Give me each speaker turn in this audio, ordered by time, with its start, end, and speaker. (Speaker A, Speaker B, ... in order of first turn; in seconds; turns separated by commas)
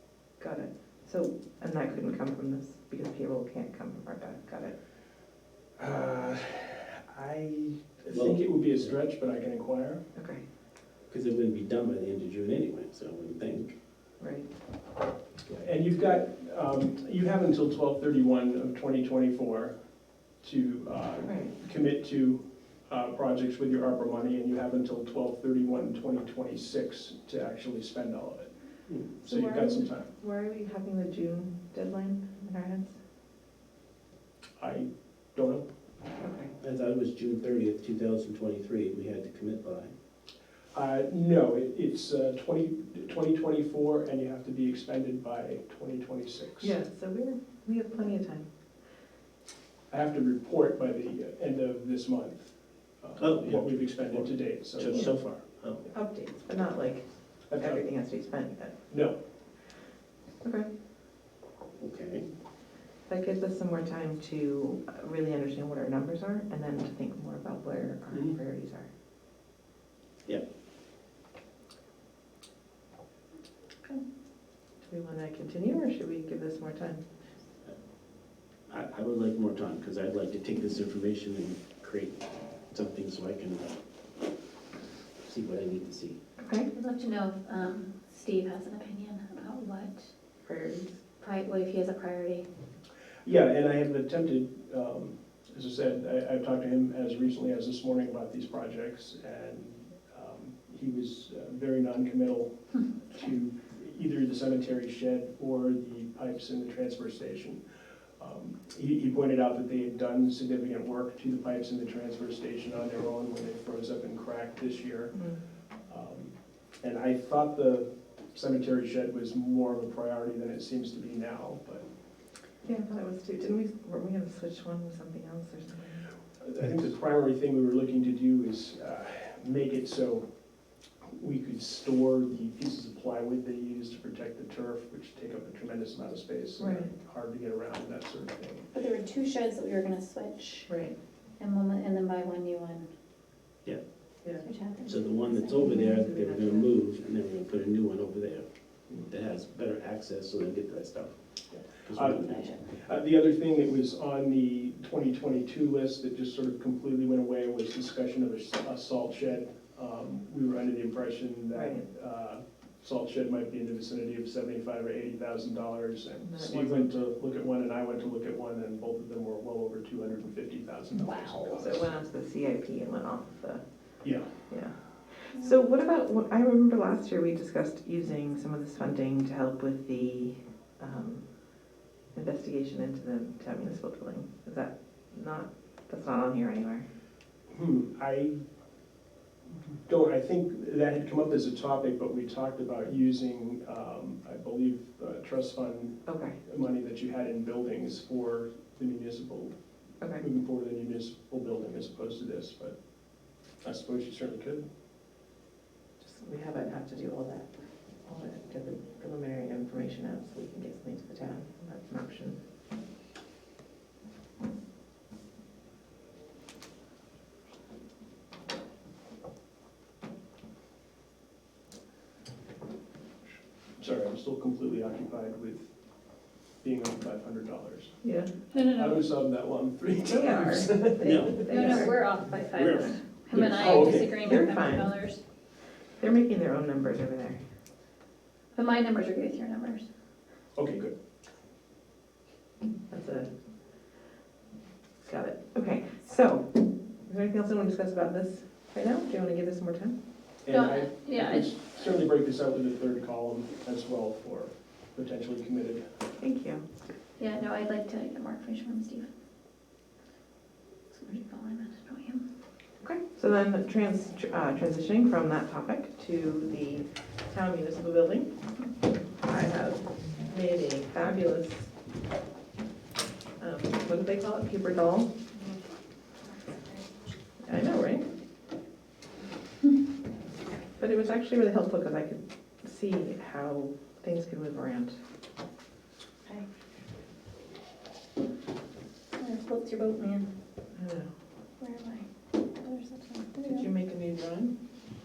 Speaker A: 0.4-4.8, Speaker B: 5.8-10.0, Speaker C: 8.1-8.5, Speaker A: 10.2-10.4, Speaker C: 11.1-13.8, Speaker A: 14.2-14.5, Speaker B: 15.5-19.8, Speaker B: 20.4-28.5, Speaker A: 21.2-21.5, Speaker B: 29.2-30.1, Speaker A: 29.2-33.0, Speaker B: 34.6-35.6, Speaker A: 36.2-36.5, Speaker C: 36.6-39.9, Speaker B: 40.7-46.8, Speaker A: 46.6-48.5, Speaker B: 49.9-55.1, Speaker C: 53.2-55.9, Speaker A: 55.9-58.9, Speaker B: 57.5-57.8, Speaker B: 58.9-59.2, Speaker A: 60.4-60.7, Speaker C: 61.8-62.3, Speaker A: 63.1-68.9, Speaker A: 74.8-77.0, Speaker C: 78.7-83.7, Speaker C: 85.2-86.2, Speaker A: 86.4-86.7, Speaker D: 86.7-90.1, Speaker A: 90.4-91.0, Speaker D: 91.2-92.5, Speaker B: 93.2-107.6, Speaker B: 108.2-115.2, Speaker A: 115.1-115.4, Speaker B: 115.9-121.8, Speaker A: 122.6-126.0, Speaker B: 126.4-130.3, Speaker B: 131.0-138.7, Speaker A: 136.6-136.9, Speaker D: 138.7-140.7, Speaker A: 140.7-140.9, Speaker D: 141.4-142.9, Speaker D: 144.4-145.8, Speaker C: 144.8-151.2, Speaker A: 145.5-146.7, Speaker B: 151.5-171.9, Speaker C: 151.8-152.5, Speaker D: 152.3-152.6, Speaker A: 161.5-161.8, Speaker A: 166.2-166.9, Speaker A: 171.6-173.6, Speaker B: 174.0-174.3, Speaker A: 174.5-181.2, Speaker A: 182.1-186.9, Speaker B: 187.5-188.4, Speaker B: 189.8-199.5, Speaker A: 196.1-196.4, Speaker B: 200.1-202.8, Speaker B: 203.6-204.6, Speaker A: 206.0-207.5, Speaker A: 208.1-212.4, Speaker B: 223.8-225.7, Speaker B: 226.6-227.9, Speaker A: 228.0-228.3, Speaker D: 228.5-229.0, Speaker B: 228.6-231.9, Speaker A: 230.1-231.9, Speaker C: 231.0-231.9, Speaker D: 231.5-235.2, Speaker C: 233.3-233.9, Speaker B: 233.3-234.2, Speaker A: 233.6-235.0, Speaker A: 236.0-237.4, Speaker D: 238.5-239.9, Speaker B: 240.6-240.9, Speaker A: 242.9-243.3, Speaker A: 245.0-250.0, Speaker B: 250.4-255.8, Speaker D: 250.5-251.5, Speaker A: 256.2-256.6, Speaker D: 257.2-259.1, Speaker D: 260.9-262.2, Speaker A: 262.8-268.3, Speaker A: 269.2-271.7, Speaker A: 273.4-275.1, Speaker D: 276.3-276.8, Speaker A: 277.4-278.1, Speaker A: 280.8-285.0, Speaker D: 289.2-290.3, Speaker A: 290.7-291.1, Speaker D: 291.6-293.7, Speaker A: 293.4-294.6